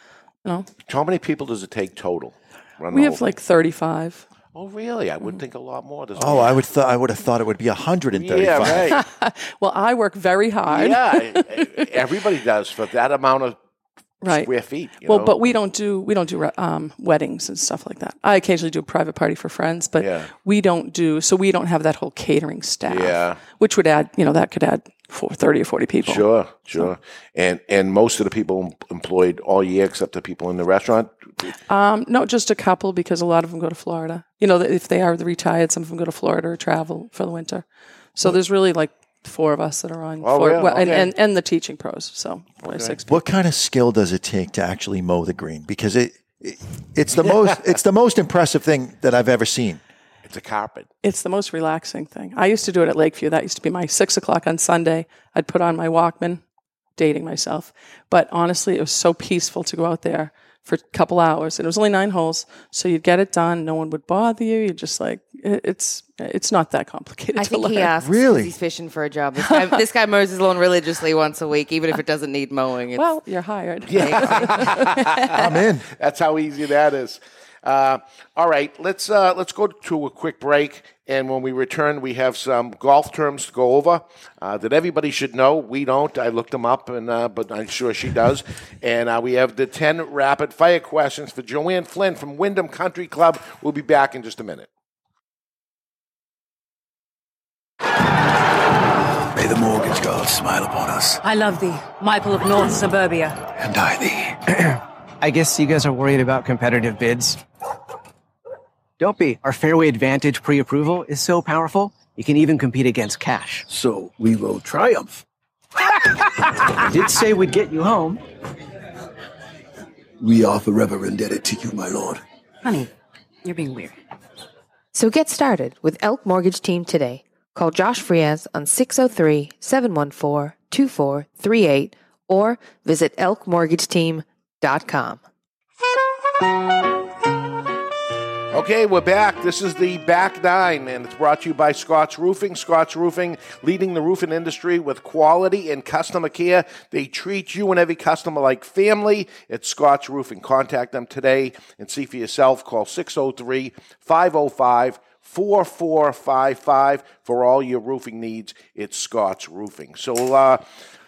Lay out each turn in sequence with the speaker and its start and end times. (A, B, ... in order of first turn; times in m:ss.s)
0:00.8-0:03.3 A
0:02.9-0:04.2 B
0:04.5-0:06.6 A
0:06.2-0:09.0 C
0:08.2-0:09.0 A
0:08.9-0:11.9 B
0:10.7-0:13.6 A
0:14.2-0:14.5 B
0:14.2-0:15.4 A
0:15.0-0:26.9 B
0:20.0-0:20.3 A
0:22.9-0:23.4 A
0:26.0-0:31.1 A
0:31.7-0:37.6 B
0:38.2-0:43.2 B
0:40.2-0:41.1 A
0:42.7-0:42.9 A
0:43.1-0:49.8 C
0:50.2-0:50.9 A
0:51.0-0:56.4 B
0:57.0-1:07.9 B
1:07.4-1:13.0 D
1:08.0-1:08.5 C
1:09.5-1:09.7 B
1:12.9-1:15.2 B
1:13.9-1:15.4 A
1:14.0-1:15.4 D
1:15.3-1:15.9 C
1:15.9-1:34.7 A
1:39.3-1:41.2 E
1:41.2-1:43.4 F
1:43.6-1:44.4 E
1:44.6-1:47.4 G
1:49.0-1:53.6 G
1:53.7-1:55.2 E
1:56.8-1:58.2 G
2:00.2-2:02.2 E
2:02.6-2:02.9 F
2:03.4-2:04.0 F
2:04.9-2:15.2 D
2:18.5-2:40.6 A